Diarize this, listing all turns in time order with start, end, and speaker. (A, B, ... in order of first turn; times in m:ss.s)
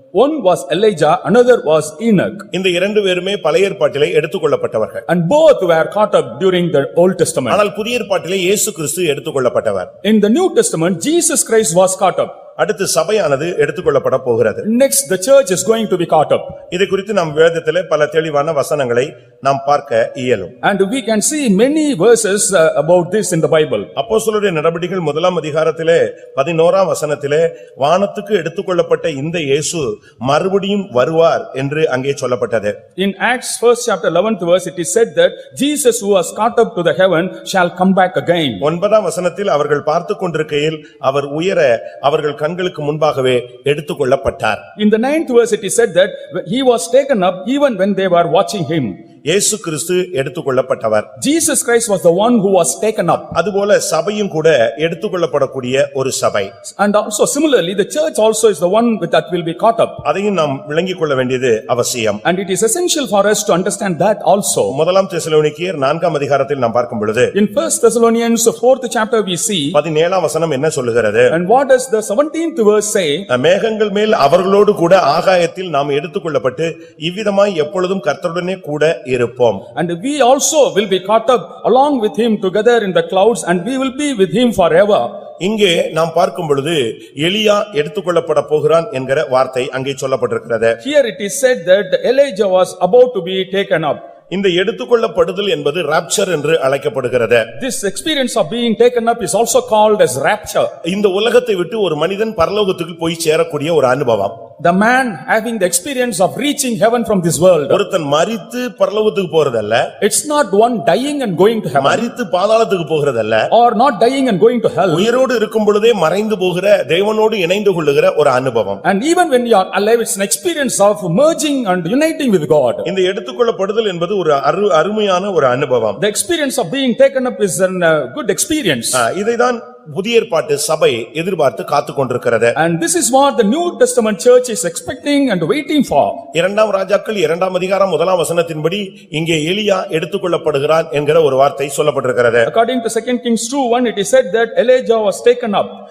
0:00.1-0:02.5 A
0:02.5-0:05.0 B
0:05.1-0:07.6 A
0:07.5-0:09.9 B
0:10.0-0:12.3 A
0:12.6-0:14.6 B
0:14.6-0:16.6 A
0:16.7-0:20.6 B
0:20.6-0:23.9 A
0:24.0-0:32.8 B
0:33.0-0:38.6 A
0:38.6-0:44.6 B
0:44.8-0:49.0 A
0:49.3-0:51.1 B
0:51.2-0:53.3 A
0:53.4-0:56.5 B
0:56.8-1:00.0 A
1:00.0-1:02.2 B
1:02.2-1:04.8 A
1:04.7-1:07.3 B
1:07.4-1:09.8 A
1:09.7-1:11.4 B
1:11.3-1:13.3 A
1:13.3-1:19.6 B
1:19.8-1:25.1 A
1:25.4-1:30.8 B
1:30.8-1:34.0 A
1:34.3-1:37.5 B
1:37.6-1:40.7 A
1:40.9-1:44.4 B
1:44.6-1:47.8 A
1:47.7-1:49.9 B
1:50.0-1:52.1 A
1:51.8-1:53.5 B
1:53.5-1:55.1 A
1:54.9-1:58.8 B
1:58.8-2:02.9 A
2:02.8-2:06.0 B
2:06.0-2:09.0 A
2:08.9-2:12.6 B
2:12.6-2:16.2 A
2:16.3-2:22.5 B
2:22.5-2:25.8 A